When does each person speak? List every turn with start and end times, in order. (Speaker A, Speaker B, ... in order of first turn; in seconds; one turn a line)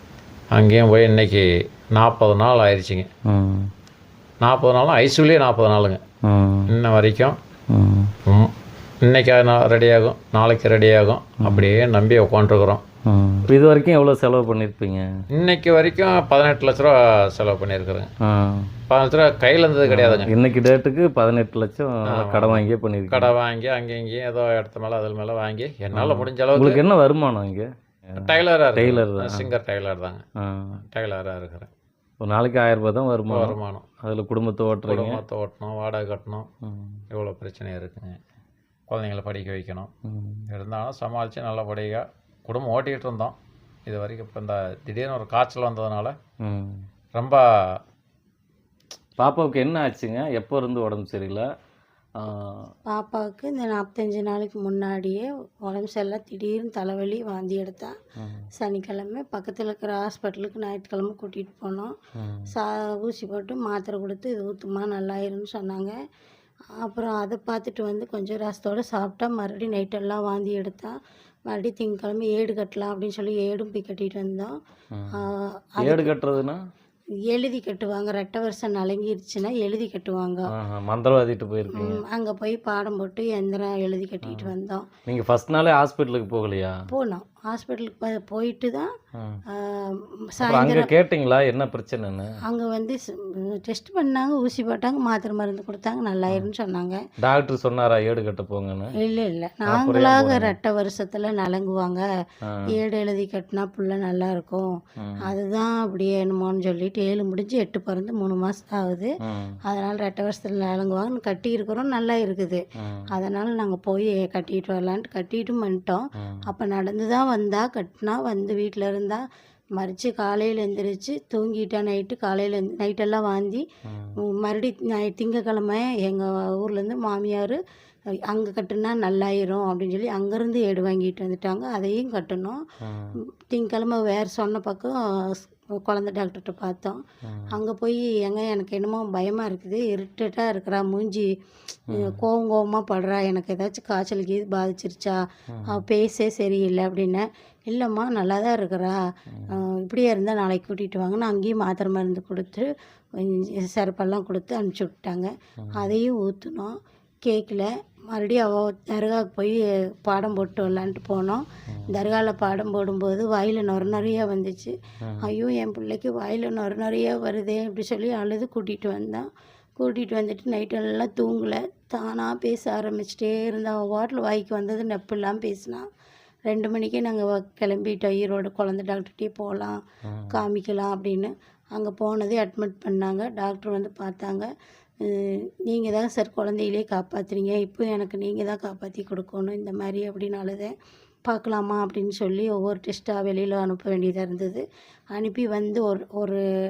Speaker A: 0.5-3.1
Speaker B: 3.2-3.7
Speaker A: 4.4-6.0
Speaker B: 6.2-6.7
Speaker A: 6.7-7.4
Speaker B: 7.7-8.1
Speaker A: 8.2-12.8
Speaker B: 11.4-11.8
Speaker B: 13.0-15.1
Speaker A: 15.3-18.1
Speaker B: 18.2-18.7
Speaker A: 18.9-20.3
Speaker B: 19.8-23.3
Speaker A: 22.1-26.8
Speaker B: 25.9-29.5
Speaker A: 28.1-30.2
Speaker B: 30.4-30.8
Speaker A: 30.9-31.7
Speaker B: 32.2-35.2
Speaker A: 33.3-33.9
Speaker A: 34.9-36.5
Speaker B: 36.6-37.0
Speaker A: 37.1-38.2
Speaker A: 38.9-39.9
Speaker B: 40.0-40.5
Speaker A: 40.5-43.3
Speaker A: 43.9-46.2
Speaker B: 46.4-46.9
Speaker A: 47.1-47.8
Speaker B: 49.2-51.5
Speaker B: 52.1-52.7
Speaker C: 52.9-58.0
Speaker B: 58.2-58.5
Speaker C: 58.6-62.0
Speaker B: 62.1-62.5
Speaker C: 62.5-66.0
Speaker C: 66.8-74.6
Speaker C: 75.1-76.1
Speaker B: 75.8-76.6
Speaker C: 77.3-80.5
Speaker B: 80.5-82.0
Speaker C: 81.7-84.9
Speaker B: 84.2-84.5
Speaker B: 85.0-86.8
Speaker C: 86.9-88.9
Speaker B: 89.1-89.4
Speaker C: 89.5-90.9
Speaker B: 90.4-92.4
Speaker C: 92.4-97.0
Speaker B: 97.2-98.9
Speaker C: 99.0-102.0
Speaker B: 99.7-100.5
Speaker C: 102.7-109.1
Speaker B: 105.0-105.2
Speaker B: 109.2-109.6
Speaker C: 109.7-119.2
Speaker B: 112.8-113.1
Speaker B: 116.2-116.4
Speaker C: 119.8-123.7
Speaker B: 123.8-124.2
Speaker C: 124.2-127.6
Speaker C: 128.3-132.6
Speaker B: 132.8-133.1
Speaker C: 133.5-141.3
Speaker B: 137.2-137.5
Speaker C: 141.9-175.9
Speaker B: 141.9-142.2
Speaker B: 145.5-145.8
Speaker B: 155.6-155.9
Speaker B: 165.0-165.3
Speaker C: 176.5-179.8
Speaker B: 180.0-180.4
Speaker C: 180.3-184.5
Speaker C: 185.0-190.7
Speaker C: 191.2-196.4